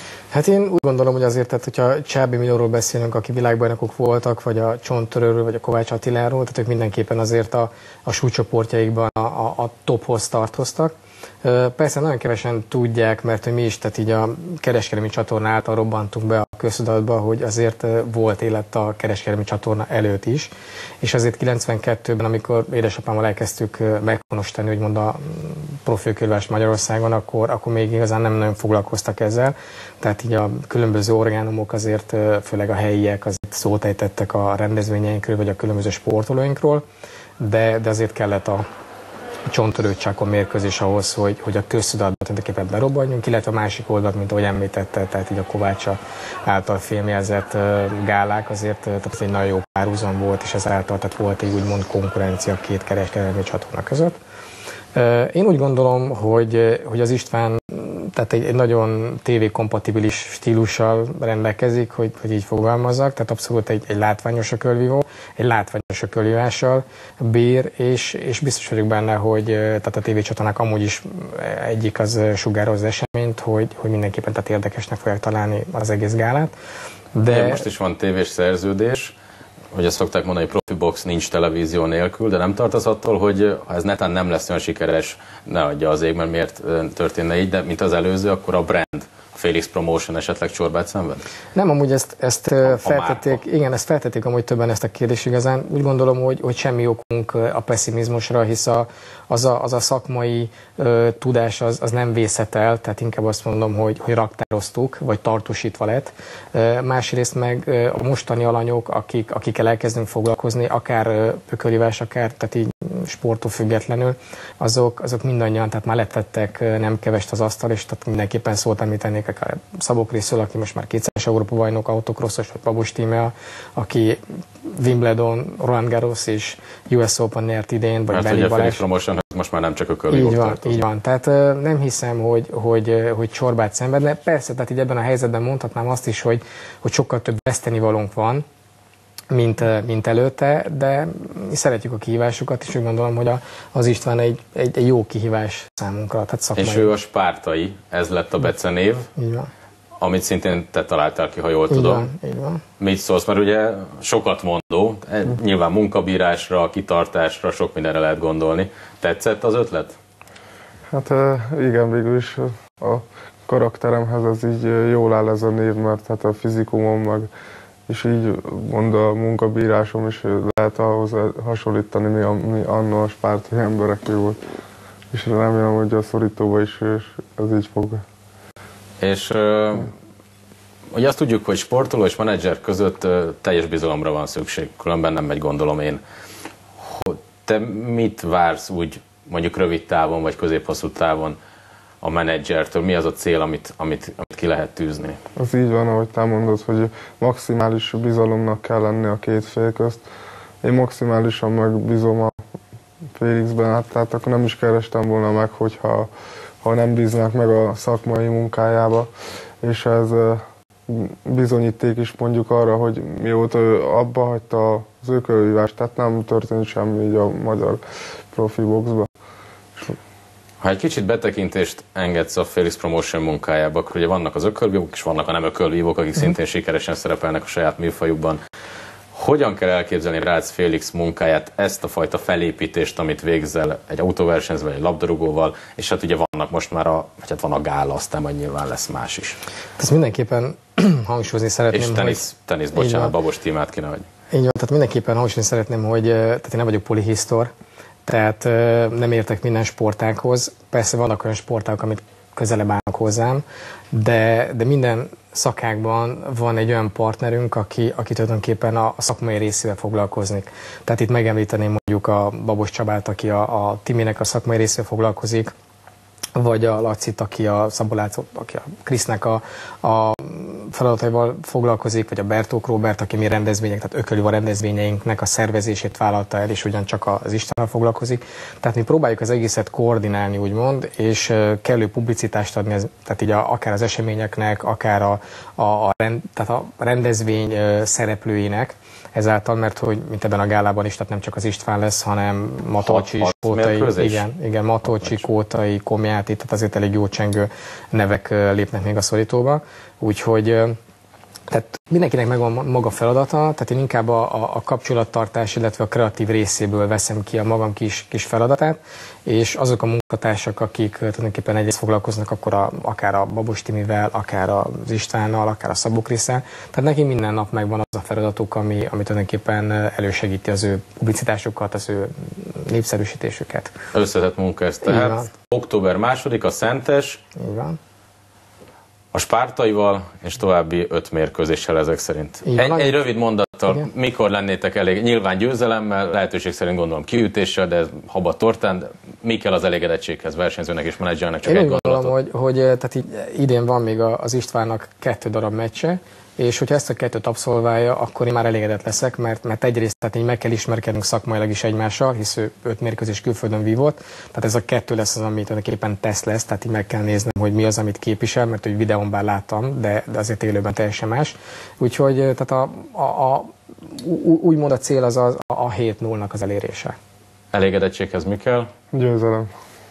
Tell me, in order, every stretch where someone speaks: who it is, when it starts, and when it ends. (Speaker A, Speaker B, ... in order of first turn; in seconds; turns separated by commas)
Speaker A: 0.3-36.8, Speaker A: 37.4-38.6, Speaker A: 39.5-54.1, Speaker A: 54.9-76.5, Speaker A: 77.1-77.7, Speaker B: 77.3-79.2, Speaker B: 79.7-91.2, Speaker A: 91.5-128.8, Speaker B: 92.6-93.4, Speaker B: 128.1-130.8, Speaker A: 130.1-138.4, Speaker A: 139.3-146.9, Speaker B: 146.5-149.1, Speaker A: 149.2-149.5, Speaker B: 150.0-152.1, Speaker A: 151.7-152.6, Speaker B: 152.8-160.0, Speaker C: 160.9-167.3, Speaker C: 167.9-174.4, Speaker C: 175.1-178.0, Speaker B: 179.0-179.9, Speaker B: 180.9-186.0, Speaker B: 186.8-191.4, Speaker B: 192.0-195.2, Speaker C: 195.3-200.0, Speaker C: 200.6-202.4, Speaker C: 203.2-206.1, Speaker C: 206.6-209.1, Speaker C: 209.6-219.1, Speaker B: 220.6-228.4, Speaker B: 229.1-239.4, Speaker A: 239.8-243.1, Speaker B: 241.7-244.1, Speaker A: 244.3-247.5, Speaker A: 248.1-265.5, Speaker A: 266.4-300.8, Speaker B: 292.8-294.3, Speaker A: 301.5-323.7, Speaker B: 323.9-327.2, Speaker A: 324.8-325.3, Speaker A: 327.3-327.8, Speaker B: 329.1-342.1, Speaker A: 332.4-333.0, Speaker A: 341.4-366.9, Speaker B: 367.5-368.7, Speaker C: 368.9-369.5